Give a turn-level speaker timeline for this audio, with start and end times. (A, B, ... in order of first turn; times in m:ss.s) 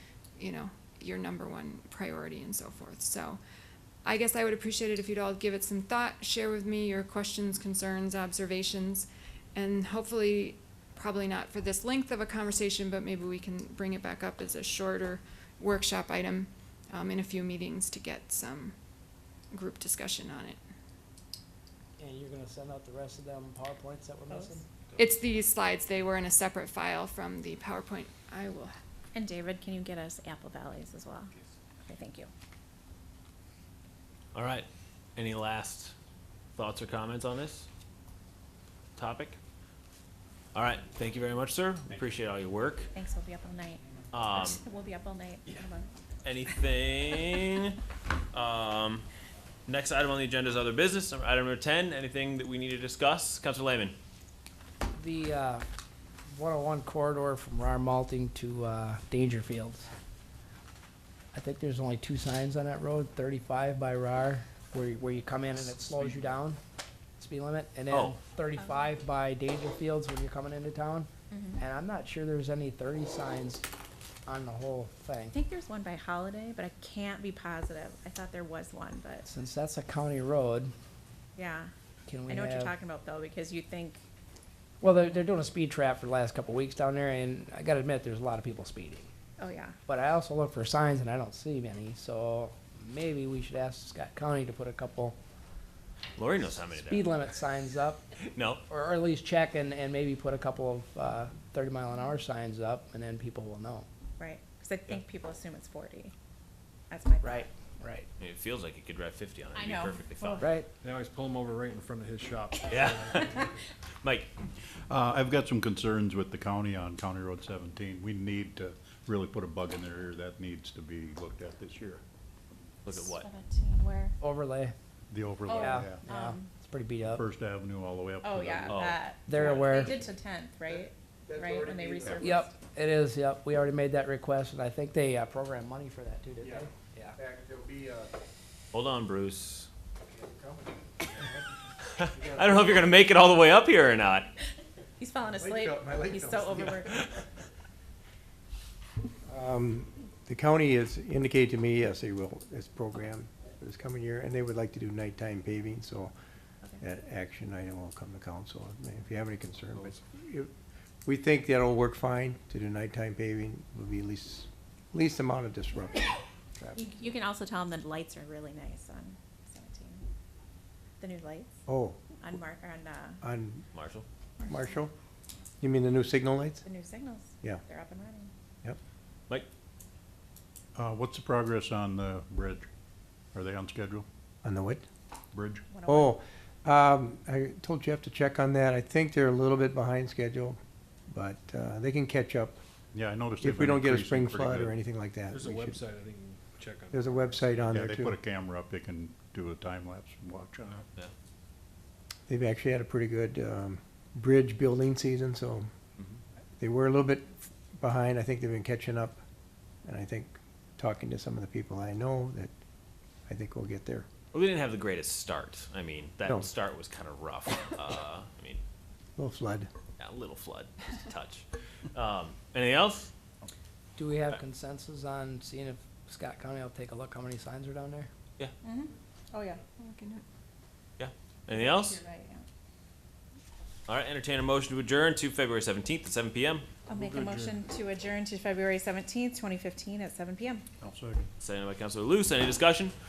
0:00.4-0:03.4 A
0:04.0-0:18.8 A
0:19.5-0:20.6 A
0:22.0-0:24.6 B
0:24.3-0:24.6 C
0:25.0-0:28.7 A
0:29.1-0:31.3 C
0:31.9-0:32.3 C
0:34.3-0:35.9 D
0:36.6-0:37.7 D
0:39.0-0:39.4 D
0:40.5-0:42.9 D
0:42.9-0:46.0 C
0:44.1-0:44.6 D
0:46.2-0:47.8 D
0:48.3-0:49.0 D
0:49.7-0:54.0 D
0:55.0-0:55.6 B
0:56.3-0:59.9 B
1:01.3-1:06.6 B
1:07.2-1:13.6 B
1:07.9-1:08.2 D
1:11.3-1:11.6 C
1:14.3-1:15.4 B
1:15.3-1:19.3 C
1:19.3-1:20.7 B
1:21.4-1:21.7 C
1:22.1-1:22.7 B
1:22.3-1:24.0 C
1:24.8-1:29.1 B
1:29.4-1:29.8 C
1:29.9-1:35.2 B
1:36.2-1:37.1 D
1:36.9-1:38.0 B
1:38.3-1:38.6 D
1:38.7-1:43.9 B
1:44.2-1:46.1 C
1:46.9-1:47.5 C
1:47.2-1:48.1 B
1:48.2-1:50.4 D
1:49.6-1:50.5 C
1:50.4-1:50.7 B
1:50.8-1:53.5 E
1:52.7-1:53.5 D
1:54.0-1:54.3 D
1:54.9-2:02.0 F
2:02.8-2:03.3 D
2:02.9-2:04.2 C
2:04.2-2:04.8 B
2:05.1-2:06.0 F
2:05.5-2:06.5 C
2:05.5-2:07.2 B
2:07.0-2:09.0 F
2:08.2-2:12.5 C
2:08.7-2:09.0 D
2:09.3-2:10.0 B
2:10.7-2:12.4 G
2:12.2-2:17.2 B
2:16.4-2:18.1 G
2:18.7-2:19.7 D
2:20.1-2:21.4 G
2:22.0-2:24.3 D
2:22.1-2:23.0 G
2:25.0-2:27.0 C
2:25.3-2:27.3 G
2:29.3-2:36.1 G
2:36.8-2:40.5 G
2:41.0-2:47.1 G
2:46.8-2:50.0 C
2:51.0-2:51.5 C
2:51.7-2:52.3 G
2:52.2-2:53.2 C
2:53.2-2:53.6 G
2:53.7-2:54.1 D
2:54.4-2:54.8 C
2:54.4-2:54.9 G
2:55.6-2:56.6 G
2:56.6-2:58.3 C
3:00.8-3:02.7 F
3:03.3-3:04.1 F
3:04.4-3:04.8 G
3:05.3-3:05.6 F
3:05.7-3:06.2 C
3:05.9-3:12.6 G
3:12.9-3:14.8 F
3:13.4-3:15.8 G
3:15.3-3:17.7 E
3:16.9-3:18.2 G
3:17.7-3:20.9 F
3:22.3-3:25.7 G
3:26.6-3:29.2 G
3:29.8-3:32.5 G
3:33.3-3:34.1 G
3:34.3-3:38.6 D
3:39.2-3:39.7 G
3:40.0-3:43.1 D
3:44.0-3:48.1 B
3:48.6-3:49.6 C
3:49.8-3:50.2 A
3:51.0-3:52.0 D
3:51.5-3:52.5 C
3:53.9-3:56.7 D
3:56.9-4:00.6 C
3:57.0-3:57.4 F
4:00.8-4:01.3 F
4:01.4-4:03.0 D